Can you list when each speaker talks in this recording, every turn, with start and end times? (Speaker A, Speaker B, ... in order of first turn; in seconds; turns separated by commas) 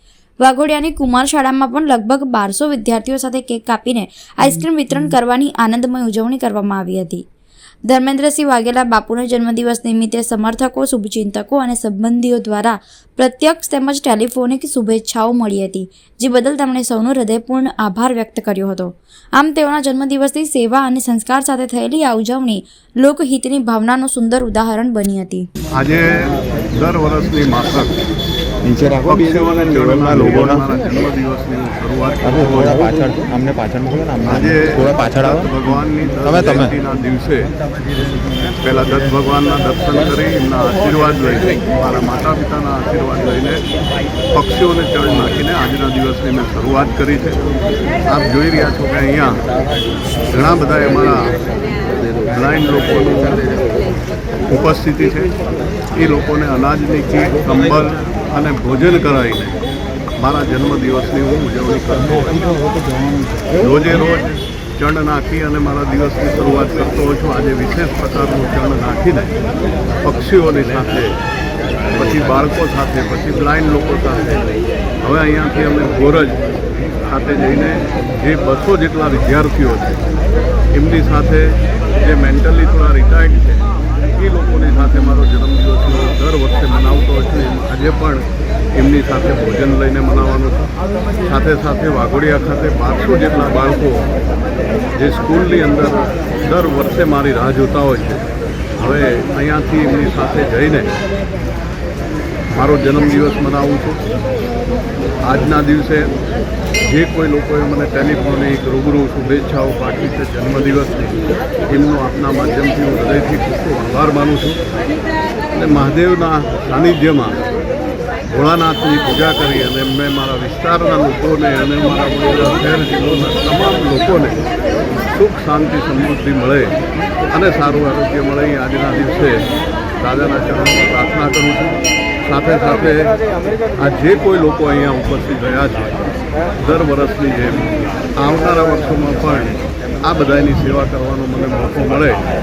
Speaker A: 0.4-7.2, Speaker A: 7.9-25.5, Speaker B: 25.7-27.9, Speaker C: 28.6-30.7, Speaker B: 29.0-32.9, Speaker C: 32.2-35.5, Speaker B: 34.2-37.5, Speaker C: 36.2-36.7, Speaker B: 38.6-43.6, Speaker B: 44.3-47.4, Speaker B: 48.1-49.4, Speaker B: 50.3-51.4, Speaker B: 52.2-53.5, Speaker B: 54.5-55.3, Speaker B: 55.9-59.5, Speaker B: 60.2-62.5, Speaker C: 62.7-63.5, Speaker B: 63.5-69.3, Speaker B: 70.0-71.2, Speaker B: 71.9-74.4, Speaker B: 75.0-76.4, Speaker B: 77.0-80.0, Speaker B: 80.7-90.7, Speaker B: 91.2-94.1, Speaker B: 95.0-98.2, Speaker B: 98.8-100.9, Speaker B: 102.5-104.0, Speaker B: 105.2-106.1, Speaker B: 106.8-114.6, Speaker B: 115.5-117.5, Speaker B: 118.3-124.4, Speaker B: 125.1-126.8, Speaker B: 127.3-133.1, Speaker B: 133.8-136.1, Speaker B: 136.6-142.2